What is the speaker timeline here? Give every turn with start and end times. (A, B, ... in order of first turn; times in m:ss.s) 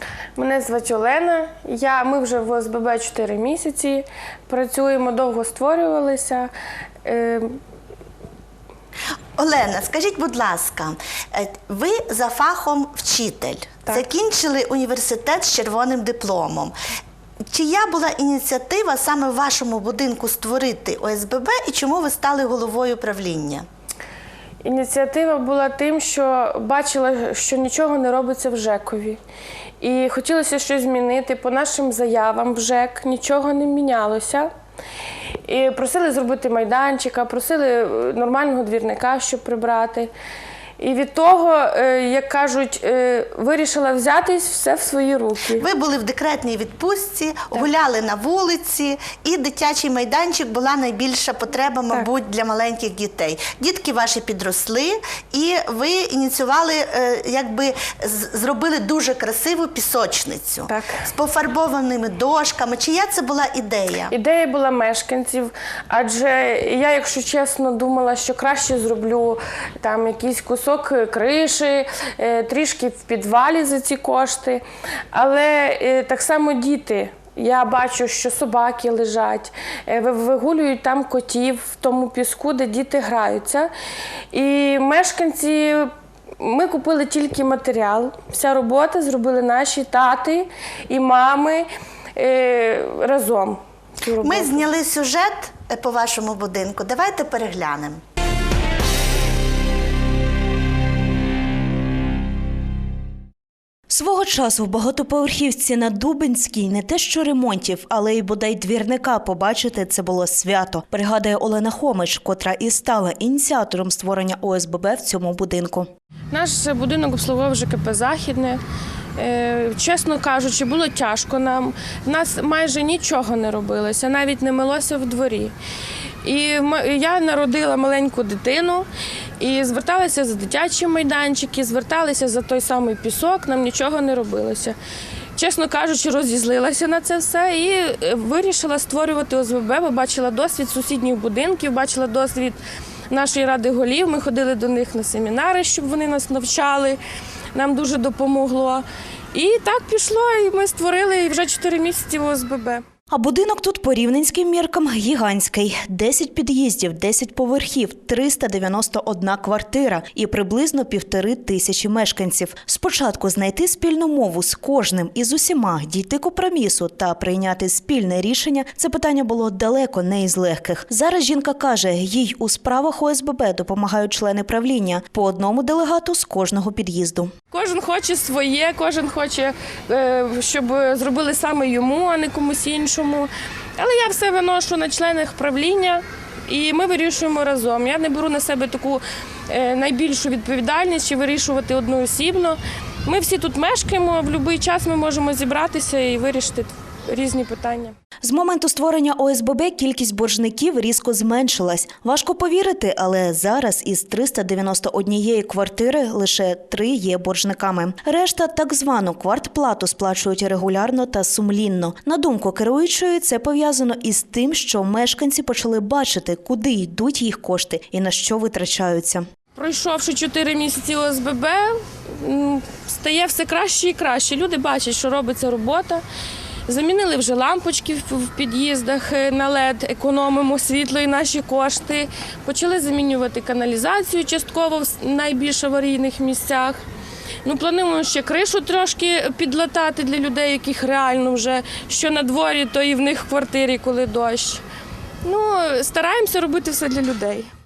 0:00.4-0:06.5 A
0:07.0-0:07.6 A
0:09.4-0:16.7 B
0:17.5-0:23.6 B
0:24.6-0:29.2 A
0:29.8-0:34.5 A
0:35.4-0:40.1 A
0:40.8-0:45.6 A
0:45.6-1:04.1 B
1:00.7-1:01.0 A
1:04.1-1:23.7 A
1:24.3-1:34.6 A
1:34.2-1:38.0 B
1:43.9-1:55.9 C
1:56.3-1:58.6 A
1:59.2-2:05.5 A
2:06.2-2:08.8 A
2:09.4-2:14.8 A
2:15.4-2:22.6 A
2:23.1-2:27.0 A
2:27.5-2:32.8 A
2:33.1-2:57.3 C
2:57.5-3:18.0 A
3:18.2-3:39.2 C
3:39.5-3:46.0 A
3:46.7-3:56.8 A
3:57.4-4:04.6 A
4:05.2-4:07.5 A